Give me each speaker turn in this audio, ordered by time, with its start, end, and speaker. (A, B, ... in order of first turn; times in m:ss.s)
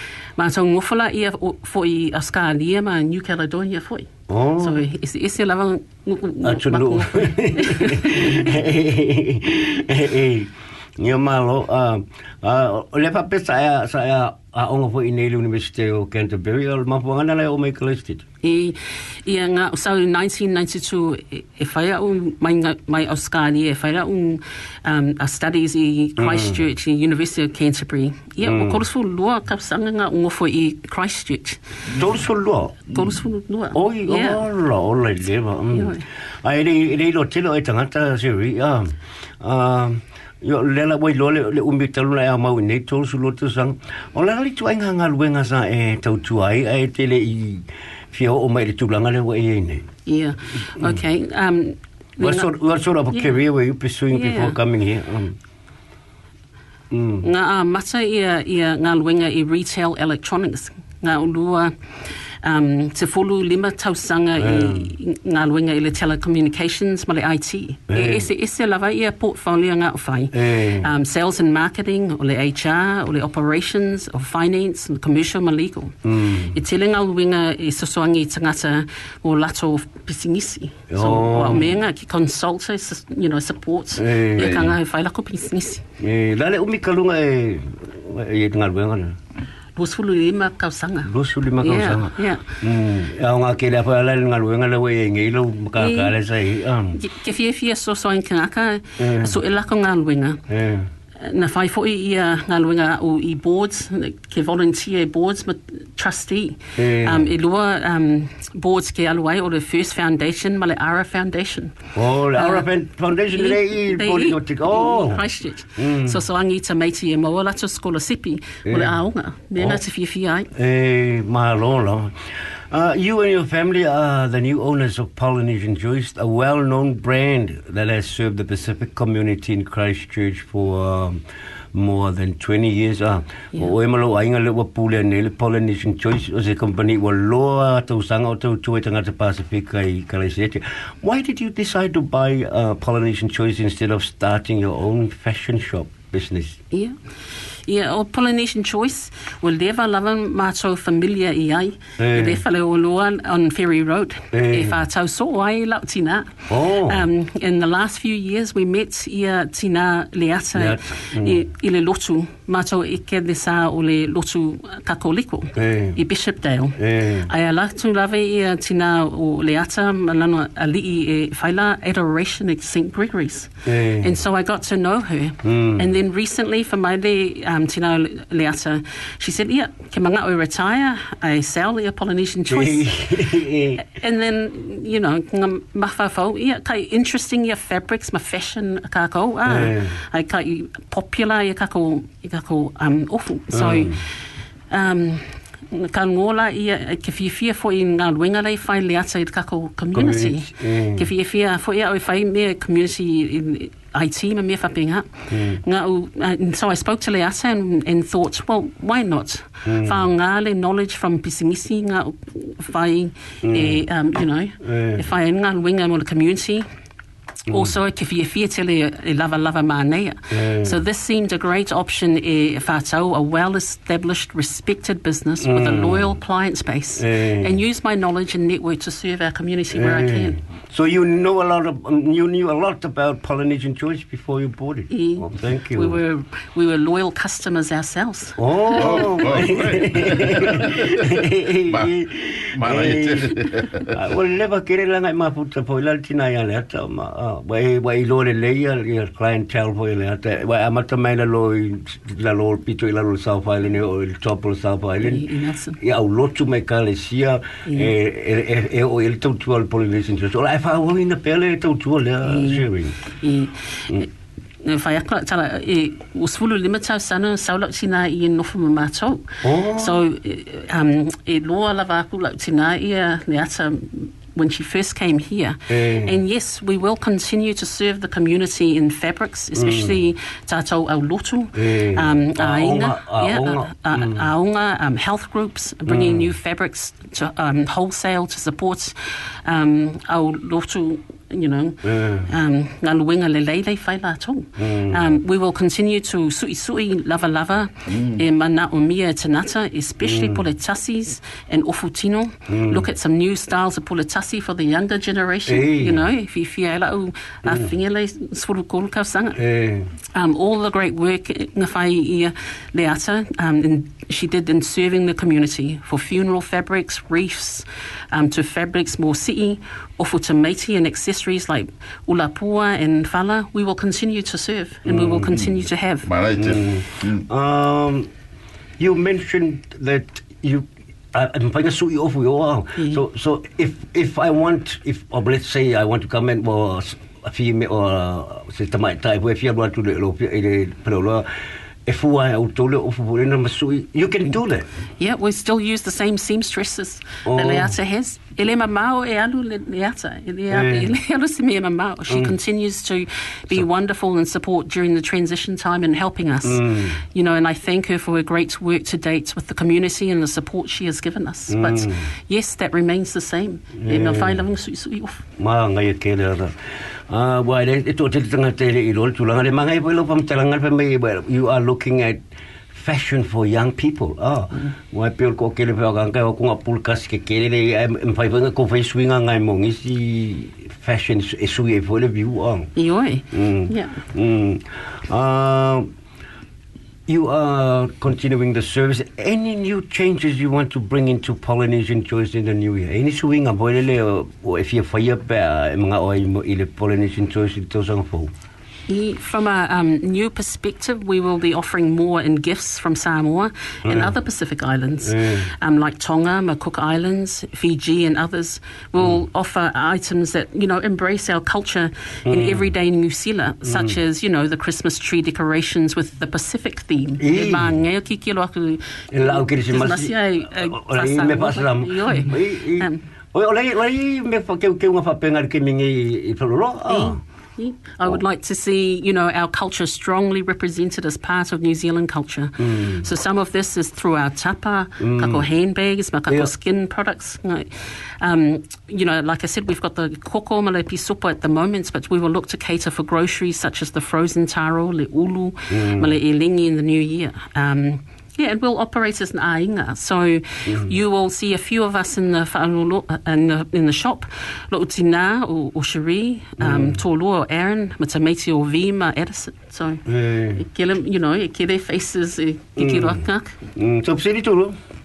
0:00.4-0:08.5 A
0:04.3-0:04.9 B
0:06.4-0:18.2 B
0:18.4-0:31.6 A
0:26.2-0:26.6 B
0:28.4-0:28.8 B
0:31.9-0:32.8 B
0:32.9-0:34.4 A
0:33.7-0:49.9 B
0:35.7-0:36.0 A
0:50.0-0:52.5 A
0:52.2-0:55.4 B
0:53.1-0:53.4 A
0:54.1-0:54.6 A
0:56.9-0:57.3 B
0:57.2-1:01.7 A
1:02.4-1:25.8 A
1:04.4-1:04.9 B
1:07.9-1:08.3 B
1:10.3-1:10.9 B
1:16.0-1:16.6 B
1:20.9-1:21.8 B
1:24.0-1:24.7 B
1:24.4-1:24.7 C
1:26.0-1:29.2 B
1:29.8-1:32.4 A
1:31.0-1:37.0 B
1:35.8-1:36.2 A
1:36.9-1:40.4 A
1:39.0-1:39.4 B
1:40.5-1:40.9 B
1:41.2-1:51.8 A
1:46.8-1:47.3 B
1:52.0-1:56.2 B
1:52.3-1:52.7 A
1:53.3-2:00.5 A
1:58.7-1:59.0 B
2:00.5-2:02.1 B
2:02.7-2:11.2 B
2:11.7-2:26.6 B
2:27.6-3:02.9 A
2:32.0-2:32.4 B
2:34.3-2:34.8 B
2:36.5-2:37.1 B
2:40.6-2:41.4 B
2:45.6-2:46.0 B
2:46.8-2:47.3 B
2:53.6-2:54.1 B
2:55.4-2:55.9 B
3:02.5-3:03.8 B
3:03.8-3:14.0 A
3:09.5-3:10.0 B
3:13.5-3:14.0 B
3:14.7-3:36.7 A
3:19.9-3:21.1 B
3:25.3-3:25.6 B
3:29.6-3:30.1 B
3:33.4-3:33.8 B
3:34.6-3:35.0 B
3:37.5-3:37.7 B
3:37.5-3:50.4 A
3:40.3-3:40.8 B
3:45.4-3:46.2 B
3:47.0-3:47.6 B
3:49.7-3:56.0 B
3:54.9-3:59.2 A
3:58.4-4:23.0 B
3:58.7-4:02.0 C
4:02.5-4:04.0 C
4:15.0-4:15.8 A
4:17.7-4:17.9 A
4:22.2-4:24.0 A
4:24.6-5:09.4 A
4:29.4-4:30.0 B
4:35.7-4:36.2 B
4:39.6-4:40.0 B
4:41.5-4:44.3 B
4:45.9-4:46.3 B
4:51.8-4:52.3 B
4:54.6-4:55.2 B
4:57.9-4:58.2 C
5:00.0-5:00.5 B
5:02.5-5:02.9 B
5:05.5-5:06.1 B
5:07.4-5:07.7 B
5:09.4-5:09.9 B
5:10.1-5:26.1 A
5:24.8-5:25.4 B
5:25.3-5:27.3 C
5:26.4-5:28.1 B
5:28.8-5:41.3 B
5:41.9-5:44.7 B
5:45.0-6:05.2 A
5:47.2-5:47.8 B
5:50.5-5:51.0 B
5:52.1-5:52.4 B
5:56.4-5:57.0 B
6:01.5-6:02.1 B
6:03.8-6:04.5 B
6:05.4-6:06.5 B
6:07.1-6:12.2 B
6:12.7-6:22.7 B
6:22.8-6:24.0 A
6:23.3-6:25.9 B
6:27.1-6:38.3 B
6:38.9-7:03.0 A
6:43.8-6:44.2 B
6:45.0-6:45.5 B
6:52.3-6:52.7 B
6:53.6-6:54.0 B
6:57.2-6:57.7 B
6:59.1-7:07.2 B
7:06.9-7:43.6 A
7:12.6-7:13.1 B
7:15.0-7:15.5 B
7:25.7-7:26.2 B
7:30.7-7:31.0 B
7:36.6-7:37.0 B
7:40.1-7:40.6 B
7:42.8-7:43.2 B
7:43.8-7:44.8 B